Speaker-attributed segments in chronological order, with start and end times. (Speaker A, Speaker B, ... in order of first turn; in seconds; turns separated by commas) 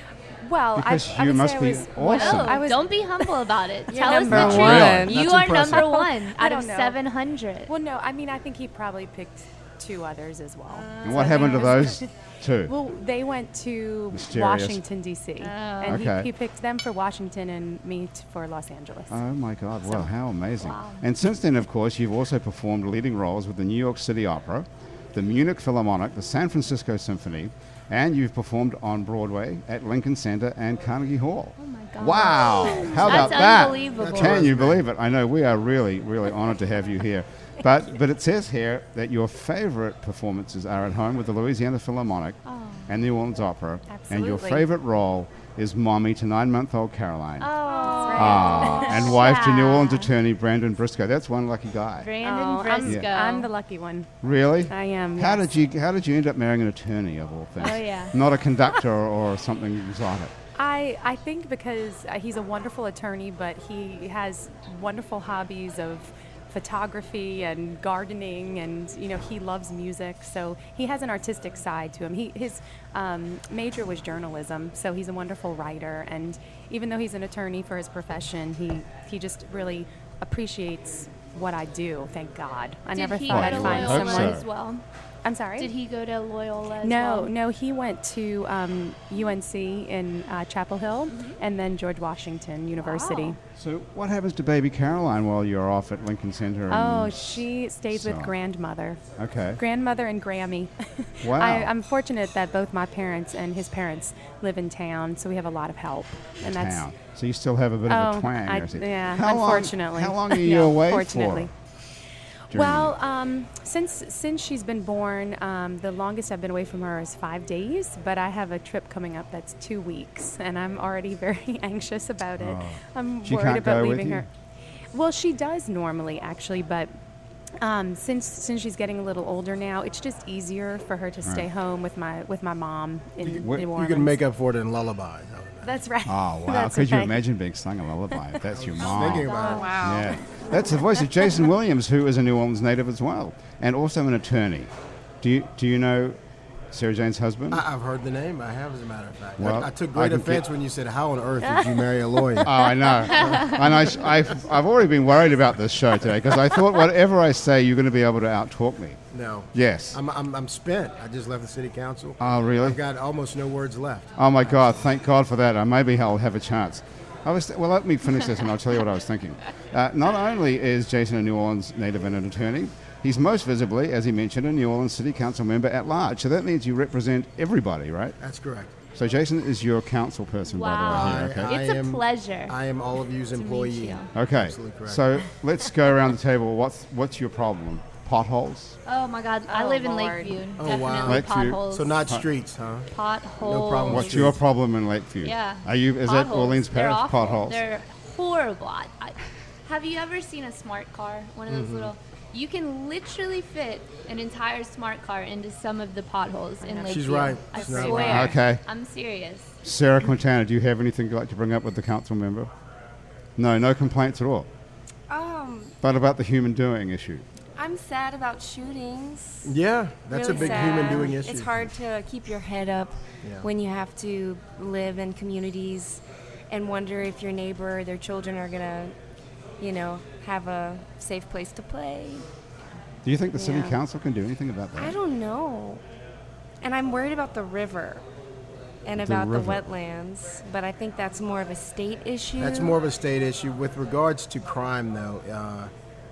Speaker A: 0.4-4.3, Speaker B: 0.8-2.6, Speaker C: 2.0-7.7, Speaker D: 3.9-5.8, Speaker B: 4.2-5.2, Speaker E: 5.1-5.9, Speaker A: 5.5-7.0, Speaker A: 7.7-12.1, Speaker C: 10.7-11.9, Speaker B: 11.0-12.7, Speaker A: 12.7-19.2, Speaker B: 14.1-14.8, Speaker C: 15.4-16.0, Speaker B: 15.9-16.3, Speaker B: 19.1-47.5, Speaker C: 20.6-21.0, Speaker C: 31.6-34.5, Speaker E: 33.0-33.3, Speaker E: 33.8-34.8, Speaker C: 42.5-42.9, Speaker A: 43.9-44.7, Speaker C: 47.4-50.1, Speaker A: 47.6-49.2, Speaker B: 48.1-52.1, Speaker C: 52.0-53.5, Speaker A: 52.2-54.1, Speaker B: 52.8-53.1, Speaker B: 54.2-60.3, Speaker A: 54.7-55.5, Speaker C: 57.6-58.1, Speaker A: 60.6-84.4, Speaker C: 82.9-84.8, Speaker B: 83.3-84.5, Speaker A: 85.2-85.7, Speaker C: 85.6-87.3, Speaker A: 86.8-93.4, Speaker C: 91.1-91.4, Speaker C: 92.8-93.4, Speaker B: 93.6-98.3, Speaker A: 96.7-99.0, Speaker B: 99.2-99.6, Speaker A: 99.6-106.9, Speaker B: 101.2-101.7, Speaker B: 106.4-111.5, Speaker A: 107.9-111.5, Speaker B: 112.5-112.9, Speaker A: 112.5-124.3, Speaker B: 122.4-124.3, Speaker A: 124.9-126.9, Speaker A: 127.6-134.2, Speaker B: 133.3-133.7, Speaker E: 133.5-135.8, Speaker A: 135.6-137.2, Speaker B: 136.1-144.7, Speaker E: 138.6-139.7, Speaker A: 139.0-139.8, Speaker C: 139.0-139.8, Speaker D: 139.3-140.2, Speaker B: 145.2-146.2, Speaker B: 146.7-147.6, Speaker E: 147.5-153.5, Speaker B: 149.4-150.4, Speaker C: 151.4-151.7, Speaker B: 152.4-159.0, Speaker C: 153.1-153.6, Speaker E: 159.1-164.7, Speaker B: 159.5-160.0, Speaker B: 162.2-162.8, Speaker B: 164.2-178.2, Speaker E: 178.2-178.7, Speaker B: 178.9-181.5, Speaker C: 180.5-182.6, Speaker E: 180.9-185.1, Speaker C: 183.3-184.1, Speaker B: 184.1-188.8, Speaker C: 188.9-192.1, Speaker A: 189.5-190.5, Speaker E: 190.6-192.9, Speaker B: 191.1-192.2, Speaker C: 192.9-194.3, Speaker E: 193.4-194.4, Speaker B: 193.9-197.6, Speaker C: 195.2-209.5, Speaker E: 201.5-201.9, Speaker A: 206.6-208.3, Speaker E: 206.9-208.3, Speaker B: 208.1-208.6, Speaker B: 209.6-212.5, Speaker B: 213.4-214.5, Speaker D: 215.1-215.8, Speaker B: 215.8-217.2, Speaker D: 217.6-219.6, Speaker E: 219.4-221.7, Speaker D: 220.1-228.9, Speaker E: 223.2-223.5, Speaker D: 229.6-232.3, Speaker B: 233.1-235.0, Speaker D: 233.4-233.8, Speaker D: 234.8-235.8, Speaker D: 236.6-238.0, Speaker D: 238.9-242.8, Speaker B: 239.0-239.6, Speaker E: 242.4-245.7